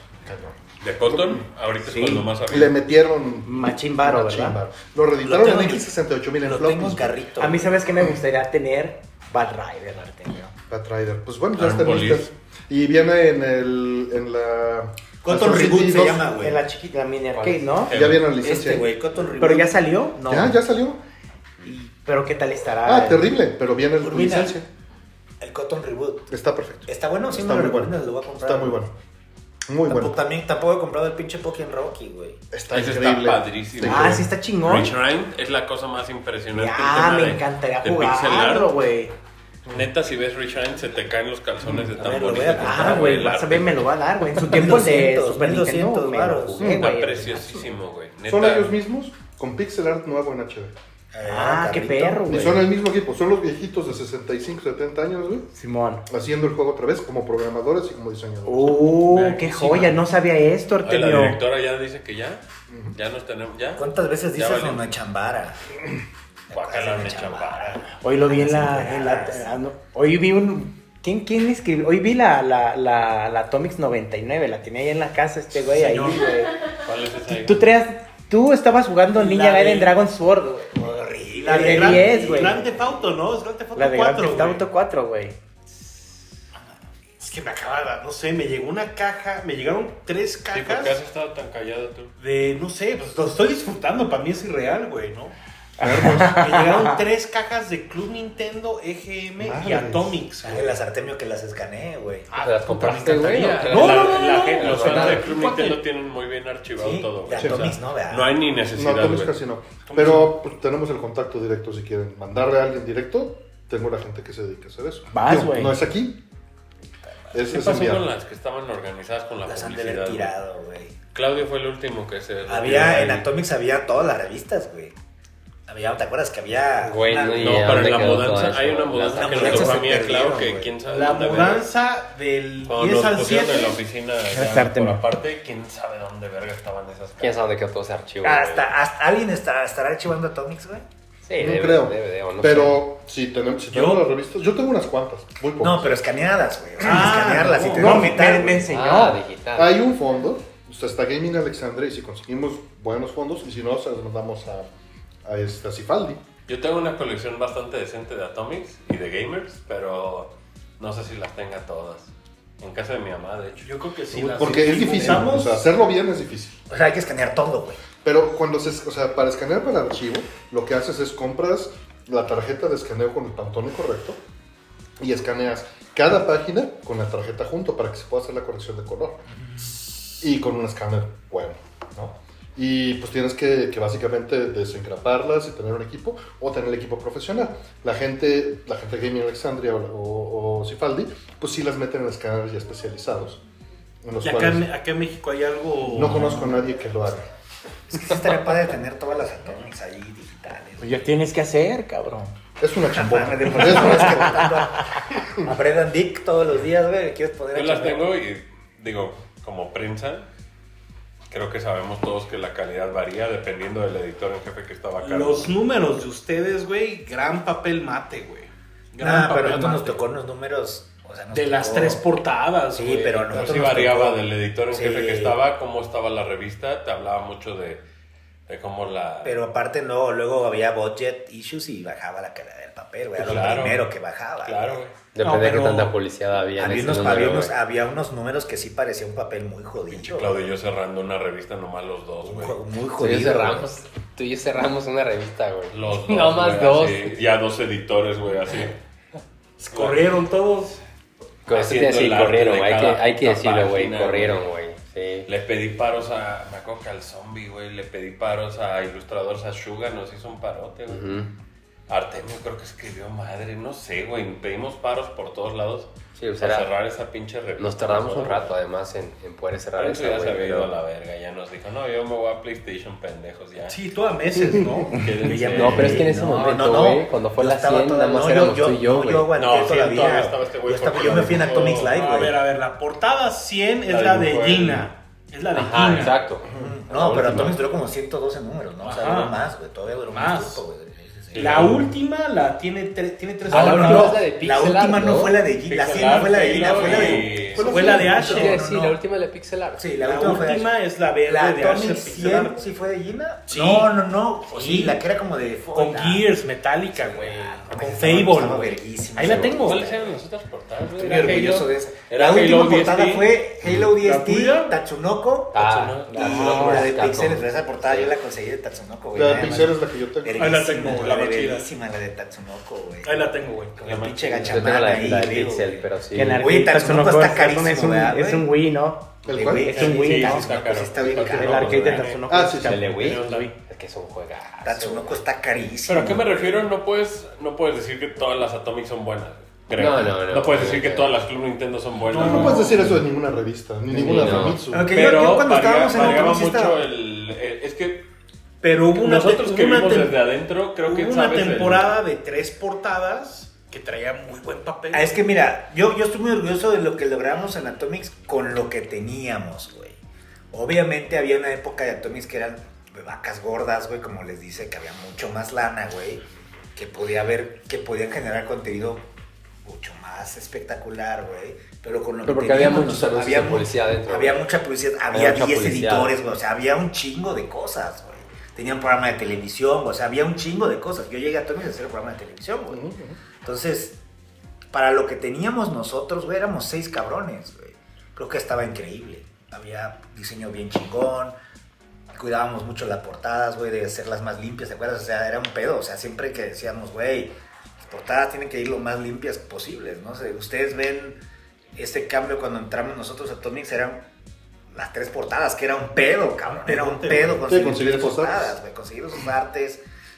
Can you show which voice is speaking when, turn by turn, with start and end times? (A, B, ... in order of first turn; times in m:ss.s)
0:00.2-0:01.4 A
0:00.8-0:02.8 B
0:01.8-0:02.3 C
0:02.5-0:07.2 A
0:03.4-0:04.6 C
0:05.2-0:05.9 D
0:06.4-0:07.8 D
0:07.4-0:10.5 C
0:10.7-0:16.3 A
0:11.6-0:12.3 B
0:15.2-0:16.6 D
0:16.4-0:17.9 C
0:17.4-0:17.7 E
0:17.9-0:18.3 B
0:17.9-0:18.9 A
0:18.4-0:20.4 D
0:19.4-0:20.5 C
0:20.3-0:21.0 A
0:21.6-0:23.3 C
0:22.8-0:24.7 A
0:24.0-0:24.6 D
0:25.4-0:26.3 D
0:26.3-0:28.9 A
0:26.9-0:28.8 D
0:29.7-0:30.2 A
0:29.9-0:32.4 D
0:32.5-0:34.3 A
0:32.7-0:38.7 B
0:33.8-0:34.9 C
0:36.5-0:39.1 C
0:39.7-0:43.8 B
0:41.6-0:41.9 A
0:42.0-0:43.2 D
0:42.6-0:47.6 C
0:44.4-0:46.7 D
0:46.6-0:46.9 A
0:46.7-0:48.7 B
0:48.2-0:50.7 A
0:51.1-0:52.5 D
0:51.2-0:52.6 C
0:52.3-0:55.5 A
0:55.5-0:56.0 C
0:56.1-0:58.9 A
0:58.4-1:01.4 C
0:59.1-1:00.0 F
0:59.2-0:59.8 B
1:00.8-1:02.4 B
1:02.7-1:02.9 A
1:02.9-1:05.0 B
1:03.8-1:05.6 D
1:06.5-1:09.5 D
1:06.5-1:07.9 B
1:08.0-1:16.6 C
1:15.5-1:16.3 F
1:16.8-1:17.7 B
1:17.3-1:20.8 C
1:19.1-1:19.9 F
1:20.8-1:23.0 D
1:21.4-1:24.6 F
1:21.5-1:22.6 C
1:23.7-1:25.4 C
1:27.2-1:31.0 F
1:30.5-1:32.1 B
1:32.2-1:35.3 F
1:35.8-1:36.9 C
1:35.8-1:36.4 A
1:36.3-1:40.8 F
1:39.4-1:40.2 A
1:40.4-1:42.3 D
1:42.3-1:45.8 F
1:42.4-1:45.3 E
1:43.2-1:49.3 B
1:46.8-1:48.4 D
1:47.4-1:47.7 A
1:48.7-1:56.2 A
1:49.9-1:50.3 F
1:55.1-1:55.8 C
1:57.3-1:58.1 A
1:57.5-2:00.3 B
1:59.4-2:01.0 D
2:01.1-2:03.3 B
2:02.5-2:05.0 D
2:05.7-2:08.2 D
2:06.8-2:09.9 E
2:07.4-2:11.7 B
2:09.2-2:10.8 D
2:10.8-2:13.8 F
2:12.7-2:17.4 B
2:14.3-2:15.0 C
2:17.2-2:18.7 E
2:18.2-2:20.8 D
2:21.2-2:22.8 E
2:21.4-2:26.0 A
2:23.7-2:24.0 F
2:25.6-2:28.7 D
2:26.8-2:28.7 F
2:27.8-2:29.2 C
2:28.7-2:29.7 E
2:29.6-2:34.7 A
2:35.2-2:36.2 A
2:36.5-2:43.7 B
2:43.6-2:45.6 F
2:44.1-2:46.6 A
2:46.7-2:47.8 D
2:48.0-2:54.2 A
2:55.0-3:13.4 A
3:14.0-3:14.6 A
3:14.2-3:16.6 F
3:15.9-3:17.2 A
3:17.9-3:21.0 D
3:20.8-3:22.3 C
3:22.6-3:24.5 A
3:22.9-3:28.1 D
3:23.8-3:24.4 C
3:27.5-3:30.3 B
3:31.3-3:35.5 B
3:35.0-3:40.0 F
3:39.0-3:42.1 D
3:41.3-3:43.6 F
3:42.7-3:45.4 D
3:43.3-3:47.8 B
3:48.5-3:49.4 B
3:49.2-3:54.8 D
3:53.2-3:53.8 B
3:54.4-3:54.9 B
3:55.1-3:57.5 E
3:55.2-3:56.0 F
3:56.6-4:00.5 D
3:59.9-4:02.6 B
4:02.2-4:03.7 D
4:03.0-4:07.2 E
4:05.7-4:08.8 B
4:09.6-4:10.8 F
4:09.7-4:10.0 B
4:11.4-4:15.3 E
4:11.5-4:14.4 B
4:15.3-4:21.2 B
4:20.9-4:21.3 E
4:21.9-4:28.5 B
4:26.2-4:26.7 E
4:27.6-4:30.7 E
4:29.8-4:33.8 B
4:33.7-4:36.4 F
4:34.9-4:36.2 B
4:35.2-4:42.4 D
4:35.5-4:39.3 E
4:39.3-4:42.3 B
4:41.0-4:46.3 F
4:43.9-4:44.9 B
4:45.5-4:47.6 E
4:46.4-4:46.7 A
4:46.4-4:51.8 D
4:48.8-4:49.4 F
4:50.1-4:50.6 F
4:51.3-4:51.9 B
4:51.3-4:54.3 F
4:53.5-4:59.0 D
4:53.5-4:55.4 E
4:55.6-4:58.0 B
4:56.6-4:58.6 F
4:57.8-4:59.9 E
4:59.8-5:06.3 D
5:00.0-5:02.7 F
5:03.5-5:03.9 F
5:04.5-5:05.0 F
5:05.7-5:10.0 F
5:07.0-5:07.6 E
5:07.4-5:10.2 D
5:09.6-5:13.4 B
5:11.0-5:11.6 F
5:11.0-5:28.5 D
5:13.9-5:14.7 F
5:15.5-5:18.1 E
5:16.1-5:16.9 C
5:19.1-5:20.6 A
5:20.4-5:21.7 F
5:23.0-5:23.9 F
5:23.8-5:24.8 B
5:24.4-5:26.5 E
5:26.1-5:30.5 C
5:29.2-5:29.7 A
5:29.3-5:32.1 D
5:29.7-5:32.2 B
5:31.2-5:33.5 C
5:32.3-5:32.8 A
5:32.6-5:35.2 E
5:33.0-5:33.5 B
5:34.6-5:36.6 D
5:35.9-5:42.8 B
5:39.8-5:41.1 E
5:42.1-5:42.9 F
5:42.1-5:44.9 A
5:43.9-5:44.7 E
5:44.7-5:46.8 D
5:44.9-5:48.0 B
5:45.9-5:46.4 F
5:48.6-5:50.2 F
5:48.9-5:52.0 B
5:50.8-5:55.1 F
5:54.9-6:00.0 D
6:00.5-6:09.0 D
6:09.6-6:22.8 D
6:12.2-6:14.4 E
6:15.1-6:16.1 E
6:22.7-6:23.2 A
6:23.4-6:24.0 D
6:24.7-6:31.4 D
6:32.1-6:41.2 D
6:41.8-6:44.0 D
6:44.7-6:49.8 D
6:46.4-6:47.4 F
6:47.5-6:48.6 A